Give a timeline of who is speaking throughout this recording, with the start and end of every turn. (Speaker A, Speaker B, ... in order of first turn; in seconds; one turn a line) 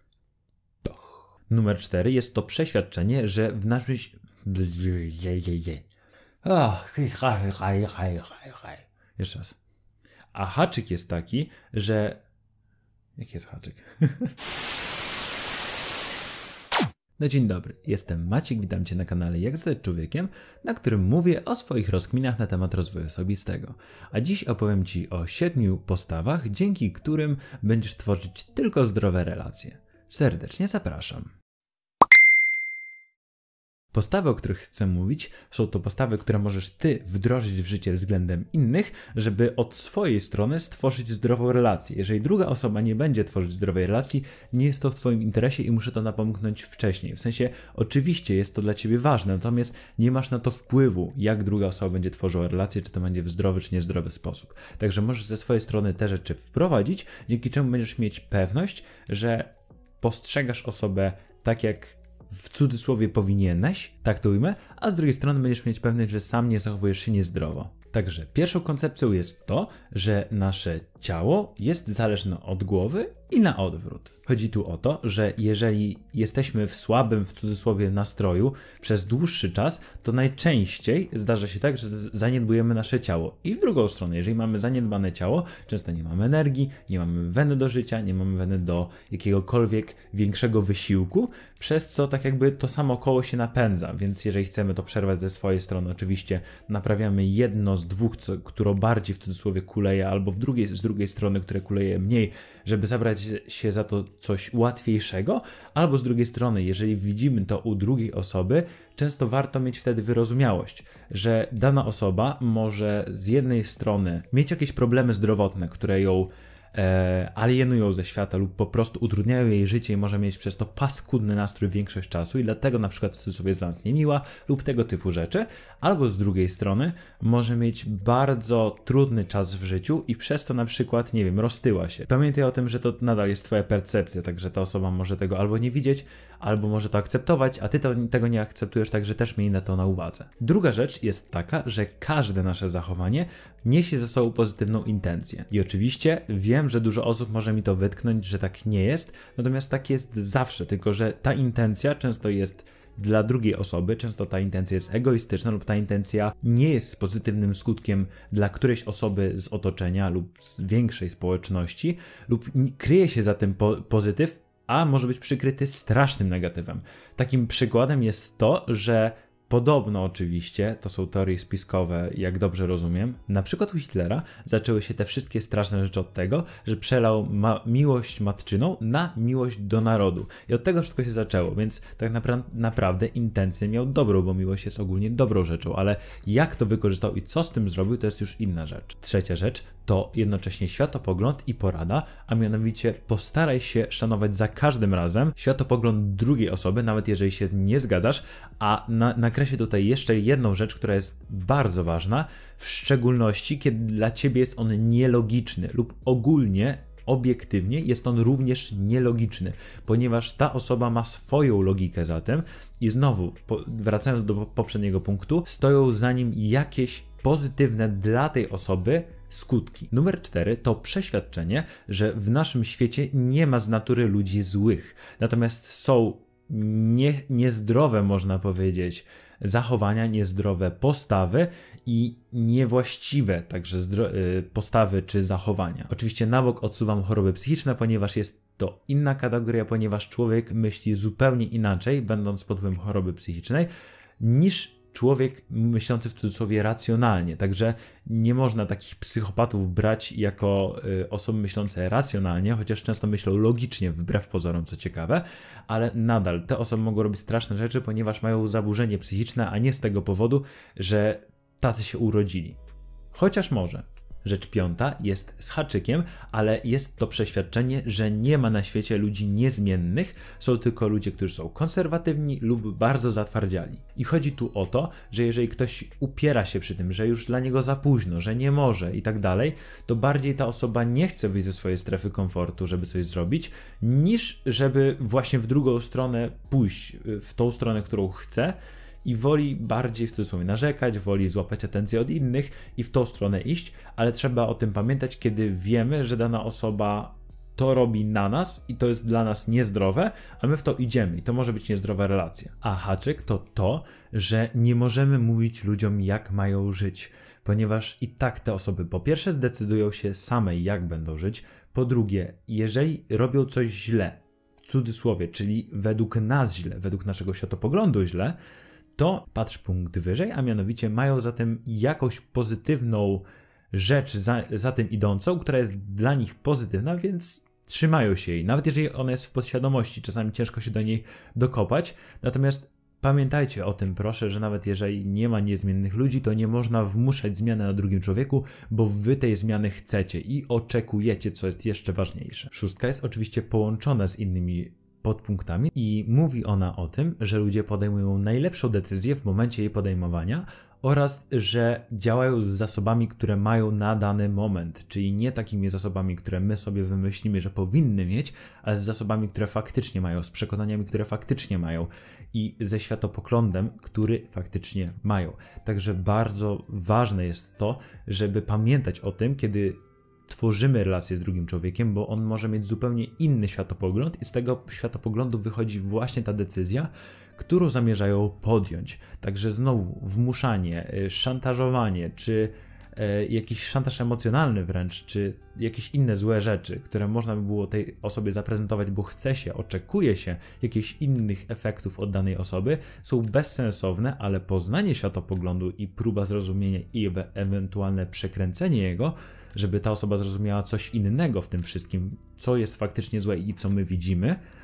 Speaker A: 1.5-5.8
Speaker A: 6.4-9.6
Speaker A: 10.3-12.2
Speaker A: 13.2-14.3
Speaker A: 17.2-31.3
Speaker A: 33.9-262.6
Speaker A: 263.1-318.4
Speaker A: 318.9-404.4